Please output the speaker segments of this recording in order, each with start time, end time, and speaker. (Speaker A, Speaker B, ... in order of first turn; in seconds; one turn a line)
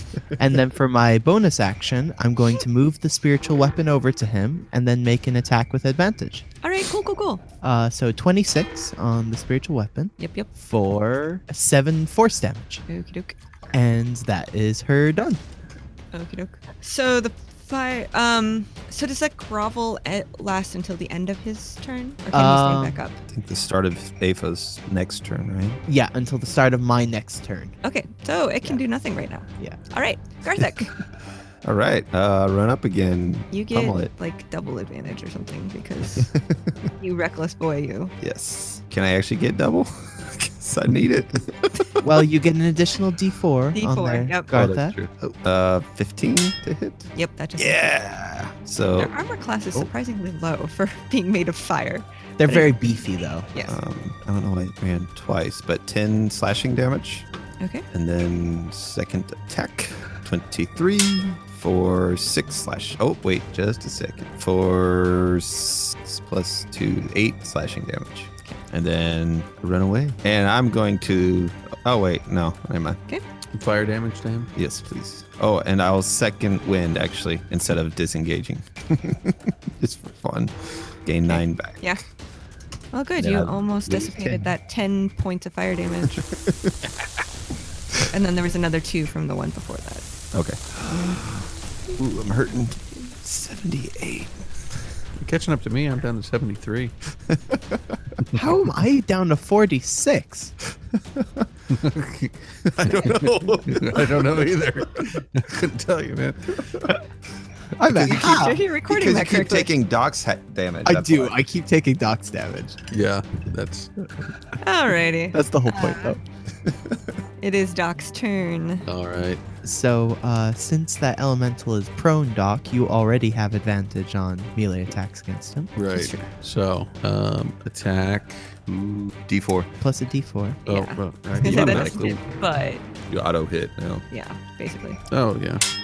Speaker A: 0.4-6.5
Speaker B: 6.6-7.4
Speaker A: 7.6-12.8
Speaker B: 10.2-10.5
Speaker B: 12.9-13.4
Speaker A: 13.7-15.4
Speaker B: 16.1-23.2
Speaker A: 22.3-23.0
Speaker C: 23.3-25.8
Speaker A: 25.9-27.8
Speaker B: 27.8-30.9
Speaker C: 31.6-34.1
Speaker B: 33.5-36.3
Speaker C: 36.2-36.7
Speaker B: 37.0-38.1
Speaker C: 38.2-42.0
Speaker A: 42.0-45.0
Speaker B: 43.7-44.5
Speaker C: 44.5-49.1
Speaker B: 47.1-47.9
Speaker B: 49.0-52.9
Speaker A: 52.4-53.5
Speaker C: 53.6-57.3
Speaker C: 57.9-73.0
Speaker D: 73.5-74.5
Speaker C: 74.5-82.0
Speaker B: 81.3-82.0
Speaker B: 82.9-86.2
Speaker C: 83.2-84.5
Speaker C: 86.3-86.9
Speaker B: 88.1-90.0
Speaker C: 90.3-94.5
Speaker D: 95.2-96.9
Speaker C: 97.3-97.8
Speaker A: 98.3-100.5
Speaker C: 101.2-101.4
Speaker D: 101.7-106.7
Speaker C: 102.7-104.5
Speaker A: 107.8-108.6
Speaker C: 107.8-111.4
Speaker B: 108.0-109.7
Speaker A: 110.8-112.8
Speaker D: 112.9-113.9
Speaker B: 114.6-116.2
Speaker A: 115.3-116.2
Speaker B: 117.4-118.8
Speaker D: 118.9-119.4
Speaker A: 119.6-125.7
Speaker D: 125.8-128.6
Speaker B: 125.9-126.2
Speaker C: 128.7-129.7
Speaker A: 129.8-130.6
Speaker D: 130.7-132.1
Speaker B: 130.7-132.8
Speaker C: 131.4-132.2
Speaker C: 133.1-134.1
Speaker B: 134.1-135.0
Speaker D: 135.1-135.6